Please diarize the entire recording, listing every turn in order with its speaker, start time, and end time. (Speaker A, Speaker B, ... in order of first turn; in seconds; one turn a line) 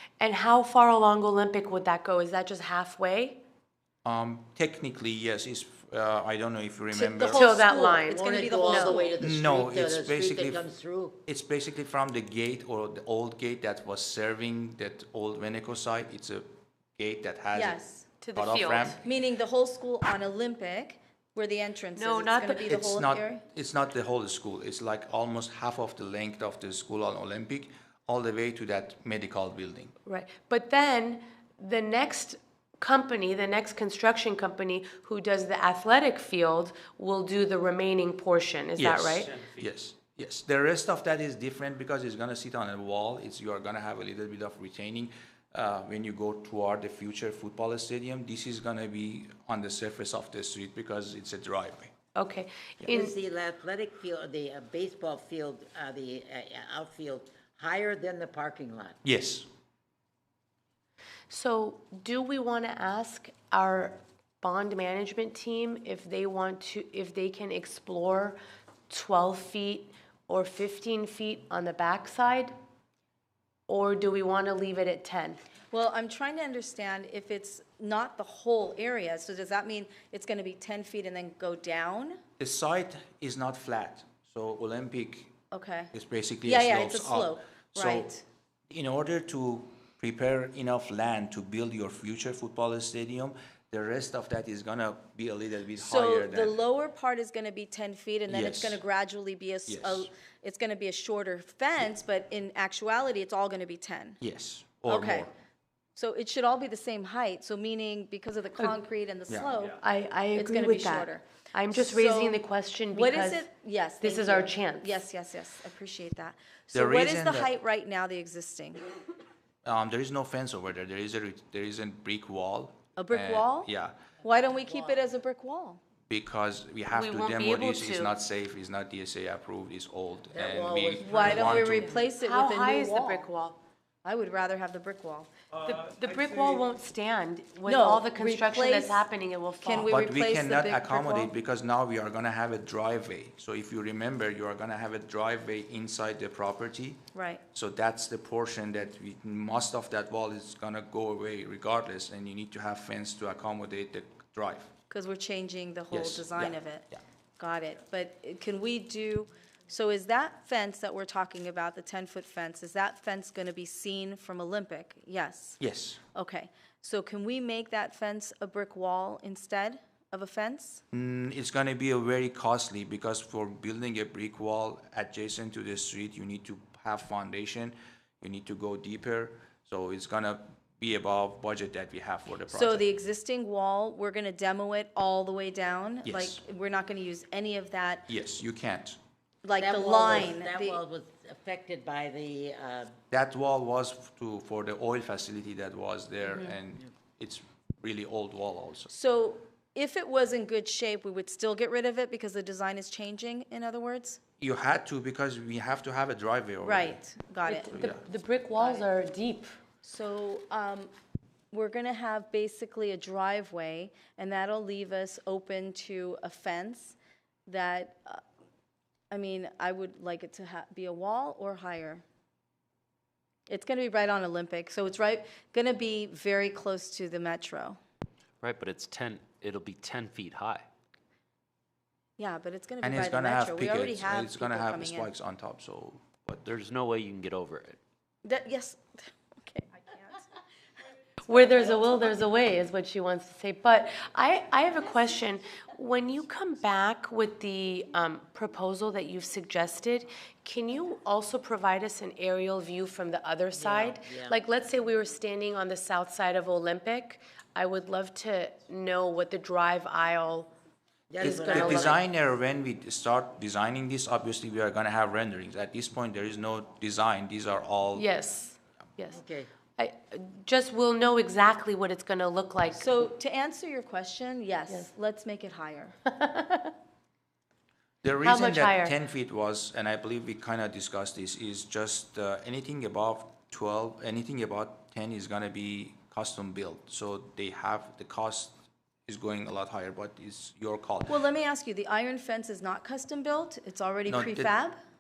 Speaker A: 0.2-3.4
Speaker B: 4.0-7.6
Speaker C: 6.9-9.1
Speaker A: 7.3-9.1
Speaker D: 8.1-11.2
Speaker B: 9.2-10.6
Speaker B: 11.2-17.8
Speaker C: 17.5-18.1
Speaker A: 18.2-19.0
Speaker B: 18.4-19.0
Speaker C: 19.0-23.4
Speaker A: 22.0-22.7
Speaker B: 22.7-29.9
Speaker A: 30.1-39.3
Speaker B: 38.8-51.9
Speaker E: 39.3-39.6
Speaker A: 52.1-53.1
Speaker D: 52.8-59.0
Speaker B: 59.0-59.5
Speaker A: 61.3-68.4
Speaker A: 68.9-72.5
Speaker A: 73.7-75.4
Speaker C: 75.7-82.2
Speaker B: 82.4-85.3
Speaker C: 85.5-85.9
Speaker B: 85.9-88.1
Speaker C: 86.4-88.2
Speaker B: 88.7-96.6
Speaker C: 95.8-104.2
Speaker B: 98.3-98.8
Speaker B: 99.7-100.1
Speaker B: 104.2-105.3
Speaker C: 104.9-105.3
Speaker C: 106.0-109.8
Speaker A: 109.8-113.5
Speaker C: 110.3-112.4
Speaker C: 112.9-118.8
Speaker A: 114.0-115.0
Speaker B: 116.7-117.5
Speaker B: 119.6-123.9
Speaker C: 123.0-123.7
Speaker D: 124.2-125.0
Speaker C: 124.2-125.8
Speaker B: 126.1-131.9
Speaker A: 126.9-128.1
Speaker D: 130.3-131.8
Speaker C: 131.0-133.3
Speaker A: 131.9-133.6
Speaker C: 134.0-135.3
Speaker A: 135.6-140.0
Speaker C: 137.7-139.1
Speaker C: 139.6-141.3
Speaker B: 139.9-147.0
Speaker C: 147.1-147.4
Speaker B: 147.5-154.7
Speaker C: 154.9-156.9
Speaker B: 155.9-157.0
Speaker C: 157.4-165.6
Speaker B: 165.6-166.0
Speaker C: 166.1-170.8
Speaker B: 170.9-182.9
Speaker C: 182.5-188.1
Speaker B: 186.0-186.4
Speaker B: 188.1-189.0
Speaker C: 189.4-190.8
Speaker D: 189.6-193.0
Speaker B: 193.1-198.9
Speaker C: 198.9-204.2
Speaker B: 204.4-207.0
Speaker C: 206.6-207.7
Speaker A: 207.5-209.5
Speaker B: 207.7-208.0
Speaker C: 208.6-208.9
Speaker C: 209.8-210.9
Speaker C: 211.5-218.2
Speaker C: 219.1-222.0
Speaker C: 223.5-227.8
Speaker E: 228.4-230.7
Speaker C: 232.2-235.1
Speaker B: 232.8-236.4
Speaker E: 236.4-237.8
Speaker C: 238.2-238.8
Speaker C: 239.4-240.2
Speaker A: 241.2-260.5
Speaker D: 253.5-254.4
Speaker D: 261.1-262.0
Speaker A: 261.2-262.0
Speaker B: 261.2-268.1
Speaker A: 268.0-269.2
Speaker D: 269.1-269.5
Speaker A: 269.8-273.0
Speaker C: 272.7-275.9
Speaker A: 276.1-276.7
Speaker B: 278.0-288.5
Speaker A: 278.2-278.9
Speaker B: 289.1-291.2
Speaker C: 291.1-294.8
Speaker B: 294.1-294.5